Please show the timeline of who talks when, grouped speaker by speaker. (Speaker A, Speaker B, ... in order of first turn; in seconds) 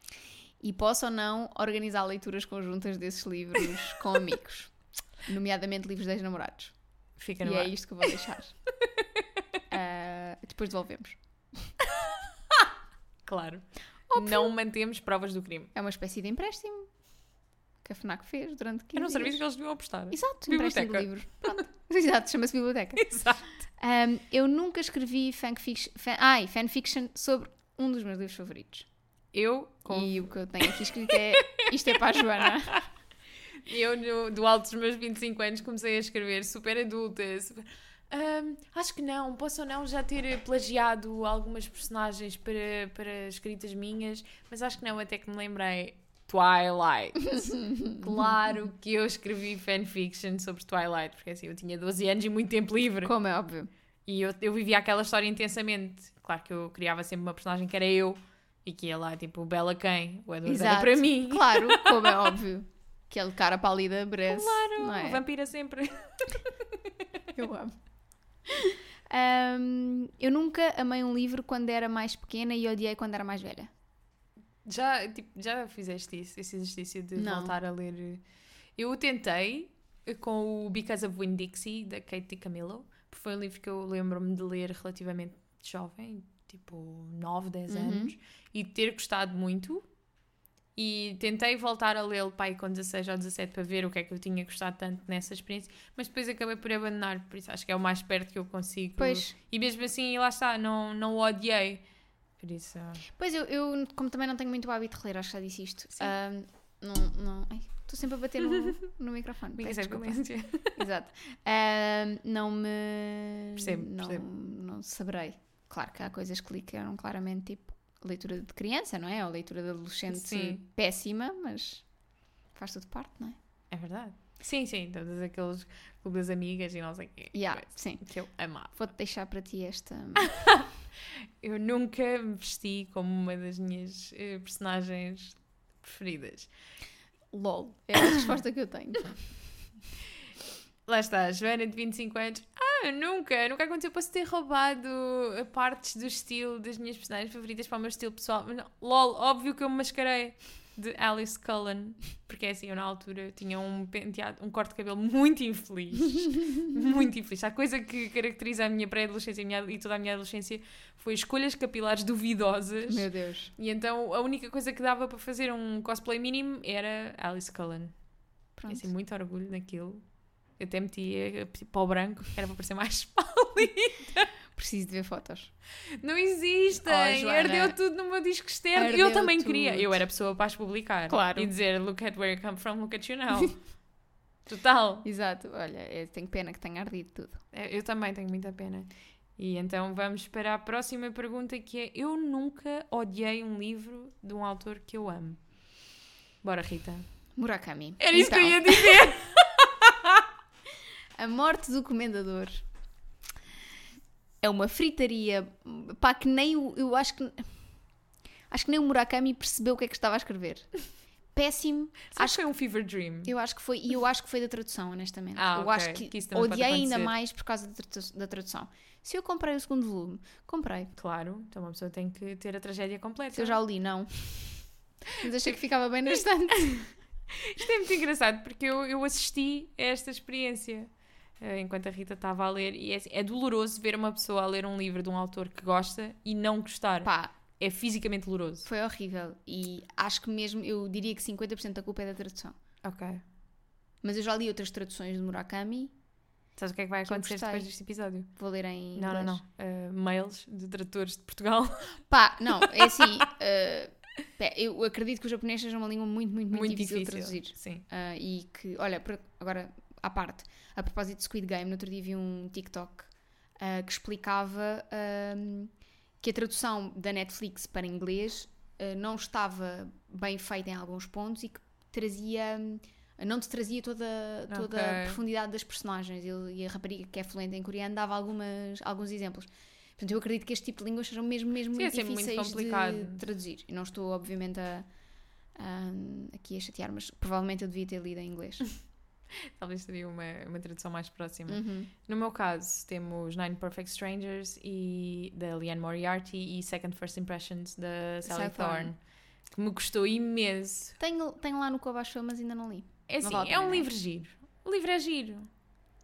Speaker A: 0.6-4.7, 5.2-6.7, 7.4-8.5, 9.7-11.2, 14.1-14.5, 15.7-16.9, 17.8-19.4, 20.1-23.1, 23.8-28.9, 29.9-32.8, 47.2-48.3, 53.0-53.7, 60.4-65.2, 67.3-67.7, 68.5-73.7, 77.2-77.5, 87.7-88.1, 99.0-99.3, 103.1-110.2, 110.8-121.8, 122.5-123.4, 127.3-128.1, 128.7-130.3, 137.3-139.3, 162.8-163.5, 168.6-168.9, 174.5-175.5, 176.8-177.8, 178.7-180.0, 181.1-181.5, 185.0-187.4, 197.4-199.1, 201.2-202.6, 204.4-207.6, 208.5-210.8, 211.3-212.4, 213.2-220.9, 223.3-224.6, 225.2-226.9, 237.0-237.3, 238.6-242.6, 244.0-245.9, 247.1-247.7, 248.3-249.4, 252.1-284.9, 285.6-288.7, 291.5-291.9, 298.2-298.9, 301.0-303.9
Speaker B: 7.2-8.2, 8.8-9.4, 11.8-12.7, 13.2-15.7, 18.9-21.1, 22.9-23.6, 29.3-32.8, 33.5-53.1, 54.0-62.4, 64.3-66.9, 74.6-78.2, 78.8-89.8, 90.8-101.8, 102.4-103.0, 108.5-108.8, 109.6-110.8, 113.6-114.2, 120.1-120.6, 123.7-128.7, 130.2-130.7, 131.4-136.5, 140.8-167.9, 168.7-170.0, 170.6-174.3, 176.0-183.6, 184.5-185.1, 187.5-195.4, 196.4-197.0, 198.0-200.2, 212.1-213.3, 215.3-217.1, 220.9-223.6, 226.7-230.9, 231.4-238.7, 242.8-243.2, 246.6-248.3, 248.9-252.0, 252.6-253.1, 256.5-257.8, 274.5-275.2, 281.7-283.2, 289.3-299.0, 299.5-301.0, 303.1-305.5